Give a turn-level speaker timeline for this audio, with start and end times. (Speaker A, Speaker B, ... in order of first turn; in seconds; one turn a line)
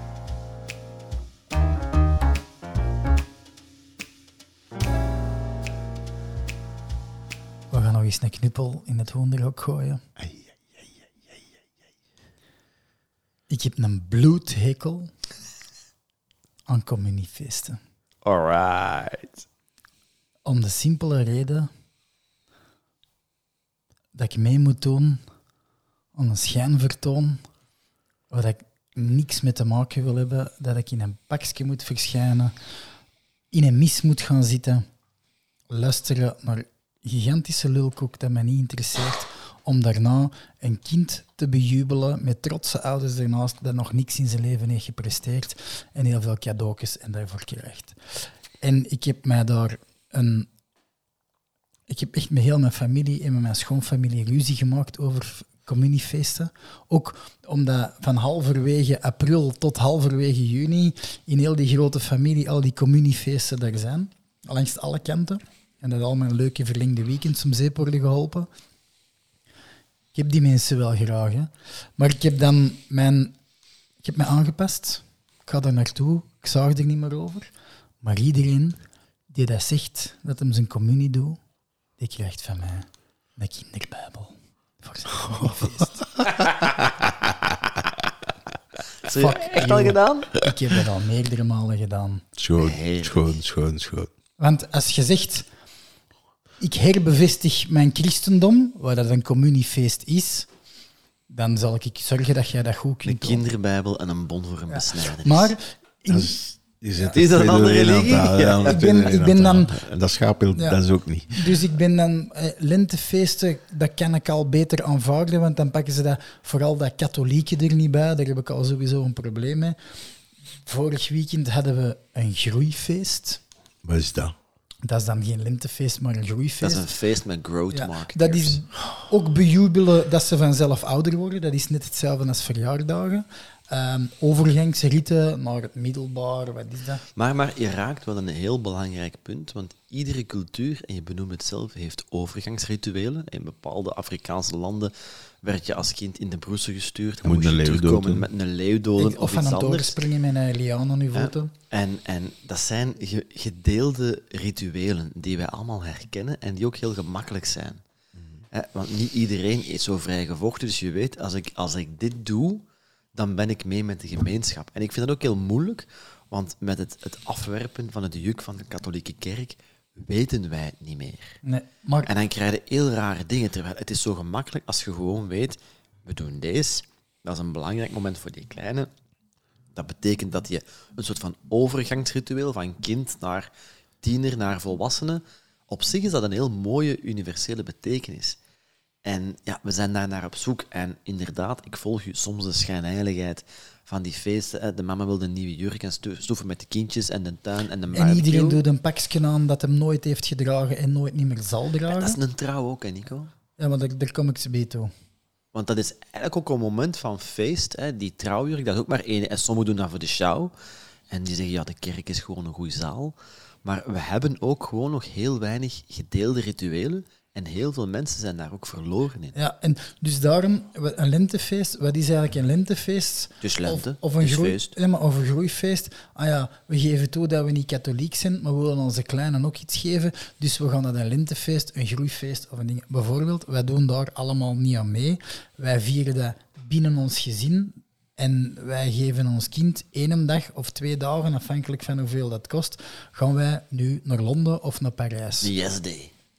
Speaker A: 7.7-10.0
Speaker B: 10.2-10.8
Speaker A: 13.5-15.1
Speaker A: 16.7-17.8
Speaker C: 18.2-19.4
Speaker A: 20.4-21.7
Speaker A: 24.1-25.2
Speaker A: 26.1-27.4
Speaker A: 28.3-32.5
Speaker A: 33.5-34.9
Speaker A: 35.7-48.0
Speaker A: 48.6-50.5
Speaker A: 51.9-68.5
Speaker A: 70.1-73.3
Speaker A: 74.0-77.5
Speaker A: 78.0-78.8
Speaker A: 79.3-81.4
Speaker A: 82.0-86.1
Speaker B: 86.2-87.5
Speaker C: 89.0-90.3
Speaker A: 89.1-92.2
Speaker B: 92.4-94.1
Speaker C: 92.6-93.4
Speaker A: 94.4-95.5
Speaker A: 96.6-100.5
Speaker A: 101.3-103.4
Speaker C: 103.0-105.6
Speaker A: 104.7-106.4
Speaker B: 106.1-111.5
Speaker C: 107.1-108.8
Speaker A: 108.6-109.8
Speaker A: 110.5-110.8
Speaker A: 111.3-119.8
Speaker A: 120.7-123.4
Speaker B: 123.8-124.3
Speaker A: 124.8-126.9
Speaker C: 126.6-128.6
Speaker A: 127.7-137.0
Speaker C: 137.2-150.0
Speaker B: 147.2-148.3
Speaker A: 149.0-151.5
Speaker C: 151.1-157.8
Speaker C: 158.5-171.4
Speaker A: 171.4-172.1
Speaker C: 172.1-178.9
Speaker C: 179.7-183.5
Speaker C: 184.0-188.4
Speaker C: 189.1-198.6
Speaker A: 197.9-202.2
Speaker C: 201.9-203.3
Speaker A: 203.6-204.9
Speaker C: 205.5-210.5
Speaker C: 211.1-219.4
Speaker A: 219.3-245.5
Speaker C: 223.4-224.7
Speaker C: 245.4-246.1